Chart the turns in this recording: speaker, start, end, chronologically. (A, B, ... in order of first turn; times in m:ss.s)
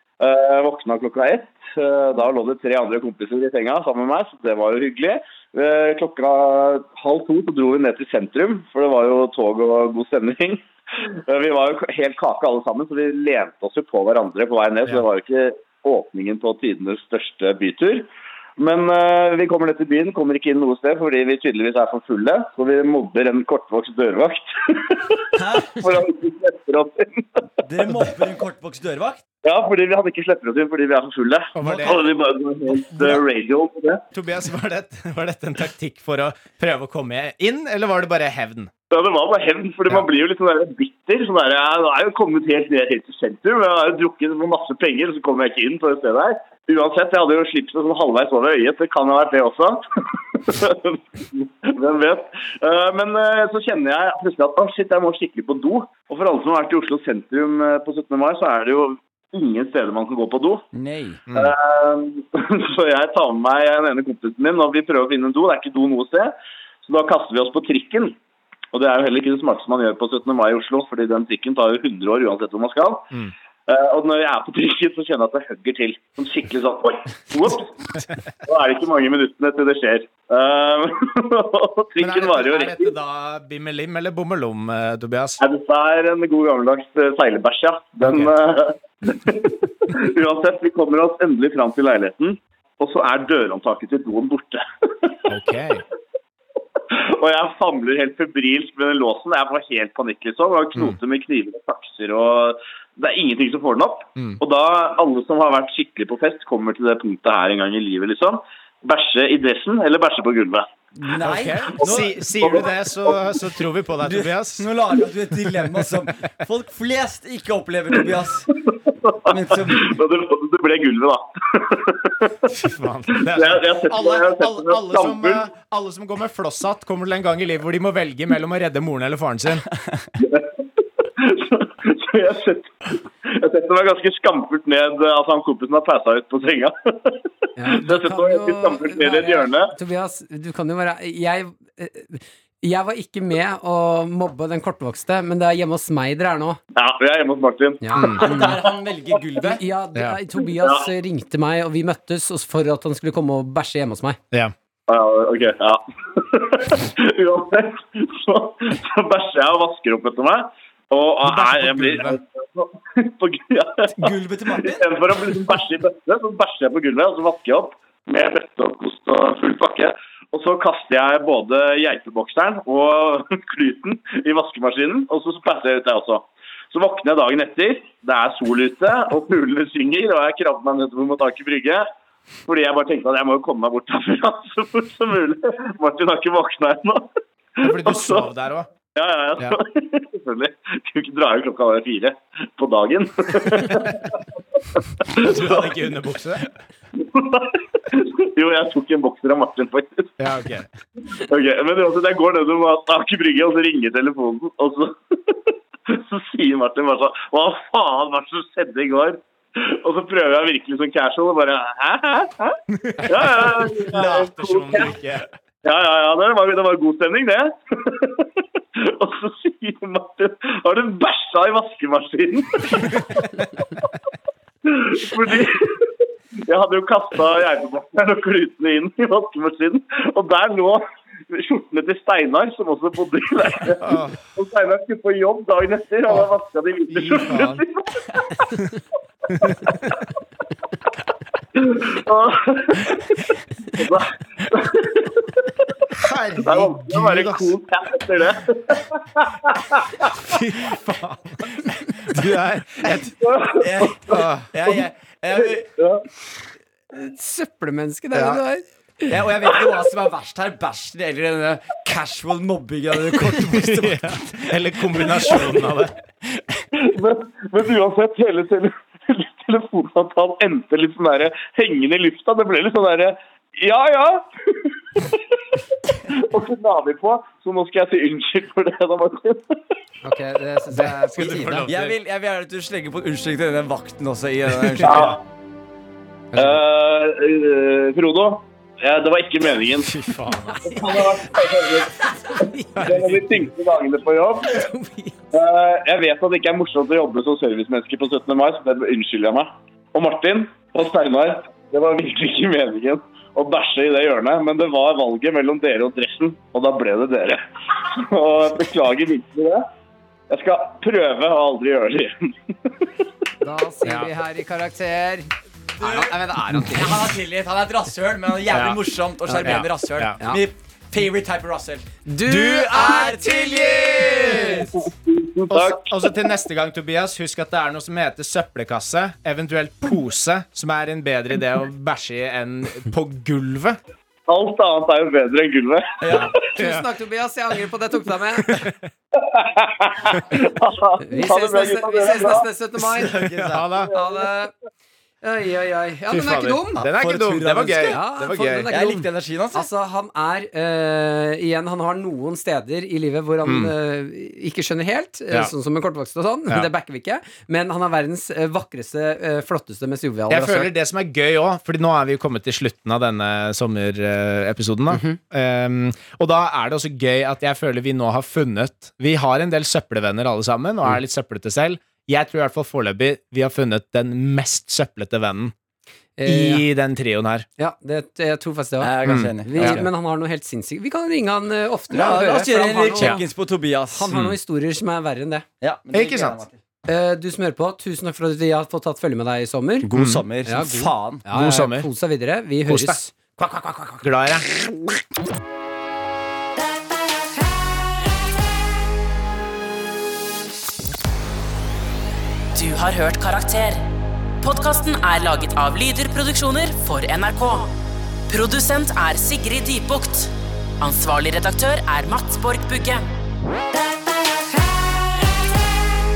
0:00.2-0:28.0 A
0:25.3-0:25.9 B
0:27.6-0:29.2 B
0:29.4-0:34.0 A
0:31.5-0:32.0 C
0:32.9-0:33.2 C
0:34.1-0:38.7 C
0:38.9-1:00.6 A
1:00.7-1:01.2 B
1:01.3-1:01.5 C
1:01.3-1:08.2 A
1:08.7-1:13.1 A
1:13.7-1:22.9 A
1:22.0-1:25.4 C
1:25.4-1:35.2 A
1:28.0-1:28.3 C
1:35.3-1:35.8 C
1:36.9-1:50.7 A
1:51.0-1:52.1 B
1:51.2-1:54.7 C
1:51.8-1:53.2 A
1:54.0-1:58.5 B
1:55.7-1:56.1 C
1:58.5-2:02.5 A
1:59.3-2:00.0 B
2:02.5-2:09.6 C
2:03.1-2:05.4 A
2:10.2-2:19.7 A
2:17.6-2:26.6 D
2:26.8-2:28.6 A
2:27.8-2:28.6 D
2:28.0-2:28.2 C
2:28.2-2:29.6 B
2:29.4-2:34.2 D
2:30.6-2:30.9 A
2:34.9-3:01.9 A
2:41.2-2:42.2 C
2:44.0-2:45.3 B
3:02.4-3:08.3 A
3:07.6-3:08.7 C
3:09.0-3:15.8 A
3:15.1-3:16.5 C
3:17.0-3:20.2 A
3:20.2-3:20.7 C
3:21.1-3:34.9 A
3:32.7-3:35.3 C
3:35.6-3:43.3 A
3:44.6-3:58.5 A
3:53.8-3:54.2 C
3:56.9-3:57.6 C
3:59.4-3:59.9 A
3:59.4-3:59.7 C
4:01.5-4:05.8 A
4:05.9-4:07.5 C
4:06.4-4:10.1 A
4:10.0-4:13.1 C
4:11.6-4:12.2 B
4:12.8-4:15.7 B
4:13.2-4:14.3 A
4:14.1-4:14.6 C
4:15.3-4:16.0 A
4:16.9-4:19.1 D
4:18.1-4:18.4 C
4:19.1-4:25.4 B
4:23.3-4:26.0 C
4:26.3-4:26.6 B
4:26.7-4:39.7 A
4:40.0-4:41.7 D
4:40.7-4:42.0 C
4:41.7-4:45.1 B
4:44.5-4:45.2 C
4:44.8-4:45.2 A
4:46.3-4:46.6 D
4:46.4-4:49.9 A
4:49.8-4:50.9 C
4:50.5-4:51.0 D
4:50.6-4:54.7 A
4:52.3-4:53.1 D
4:52.7-4:53.4 C
4:54.5-4:55.1 D
4:55.3-5:09.6 A
5:10.3-5:13.0 A
5:13.4-5:17.0 D
5:13.8-5:14.1 C
5:15.8-5:24.8 B
5:18.5-5:18.8 C
5:19.2-5:19.6 D
5:19.4-5:20.2 C
5:22.0-5:23.2 D
5:22.2-5:24.7 C
5:24.9-5:26.1 A
5:25.5-5:33.8 C
5:34.3-5:36.3 A
5:36.0-5:36.4 B
5:36.4-5:38.6 D
5:36.5-5:36.8 C
5:38.4-5:38.9 C
5:39.1-5:42.5 A
5:41.0-5:43.2 D
5:42.9-5:43.6 B
5:43.3-5:43.9 C
5:43.9-5:44.5 D
5:45.2-5:46.8 D
5:46.1-5:48.7 C
5:46.8-5:48.0 B
5:47.8-6:00.7 D
5:48.7-5:49.7 B
5:53.4-5:53.7 C
6:00.3-6:15.5 C
6:04.9-6:05.2 D
6:16.2-6:16.6 D
6:16.2-6:17.4 C
6:17.6-6:23.2 D
6:18.8-6:19.9 B
6:19.0-6:19.8 C
6:21.9-6:24.1 B
6:23.9-6:25.4 D
6:24.1-6:24.4 C
6:25.6-6:26.6 B
6:25.9-6:26.4 C
6:26.9-6:29.9 D
6:29.8-6:31.2 B
6:29.9-6:30.2 C
6:30.4-6:33.1 D
6:31.3-6:31.9 C
6:32.7-6:34.5 C
6:42.5-6:43.9 E
6:44.4-6:47.7 E
6:48.3-6:53.1 E